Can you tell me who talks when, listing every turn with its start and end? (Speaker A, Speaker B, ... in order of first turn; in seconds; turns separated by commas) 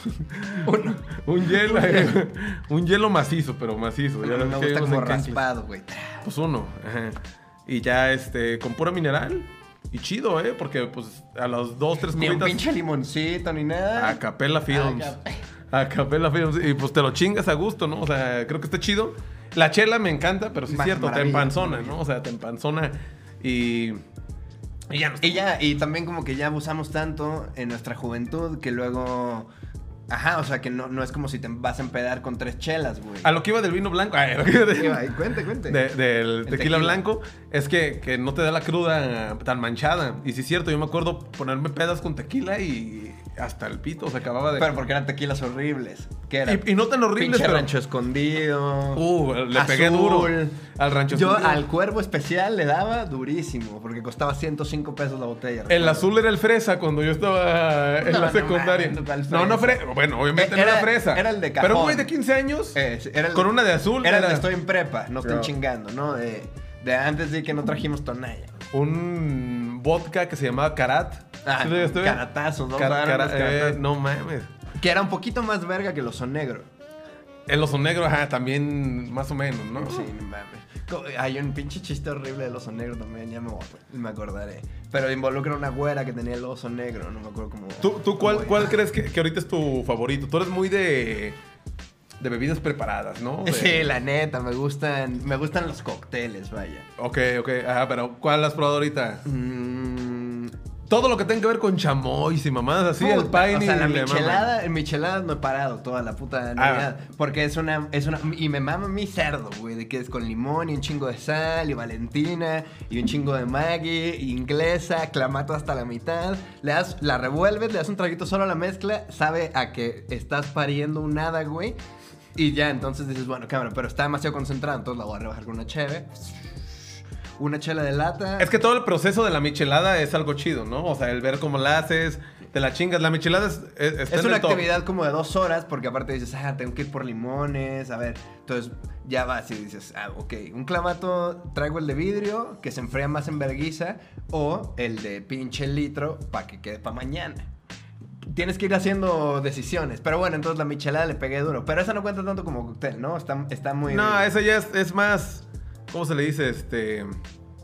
Speaker A: 0.3-5.4, Speaker B: 0.6-2.2, Speaker B: 4.2-6.2, Speaker A: 6.2-12.6, Speaker B: 12.1-14.2, Speaker A: 14.0-15.2, Speaker B: 14.7-15.4, Speaker A: 15.7-24.0, Speaker B: 20.7-22.0, Speaker A: 24.9-25.4, Speaker B: 25.2-29.5, Speaker B: 30.1-33.3, Speaker A: 33.2-35.0, Speaker B: 34.8-35.8, Speaker A: 35.7-44.7, Speaker B: 36.5-37.0, Speaker B: 44.6-56.1, Speaker A: 46.5-47.7, Speaker A: 49.0-51.6, Speaker A: 55.7-62.8, Speaker B: 58.0-62.1, Speaker B: 62.7-68.5, Speaker A: 63.3-64.5, Speaker A: 65.2-65.5, Speaker A: 68.7-72.2, Speaker B: 71.5-73.8, Speaker A: 72.8-74.5, Speaker B: 74.8-76.7, Speaker A: 77.5-80.1, Speaker B: 79.8-88.7, Speaker A: 87.8-91.4, Speaker A: 92.2-93.9, Speaker B: 93.5-96.9, Speaker A: 97.0-99.2, Speaker B: 99.2-100.5, Speaker A: 100.9-104.5, Speaker B: 103.0-121.8, Speaker A: 106.6-106.9, Speaker B: 122.4-126.3, Speaker B: 127.4-128.5, Speaker A: 128.4-134.7, Speaker B: 134.1-147.5, Speaker B: 148.3-154.3, Speaker A: 153.9-157.2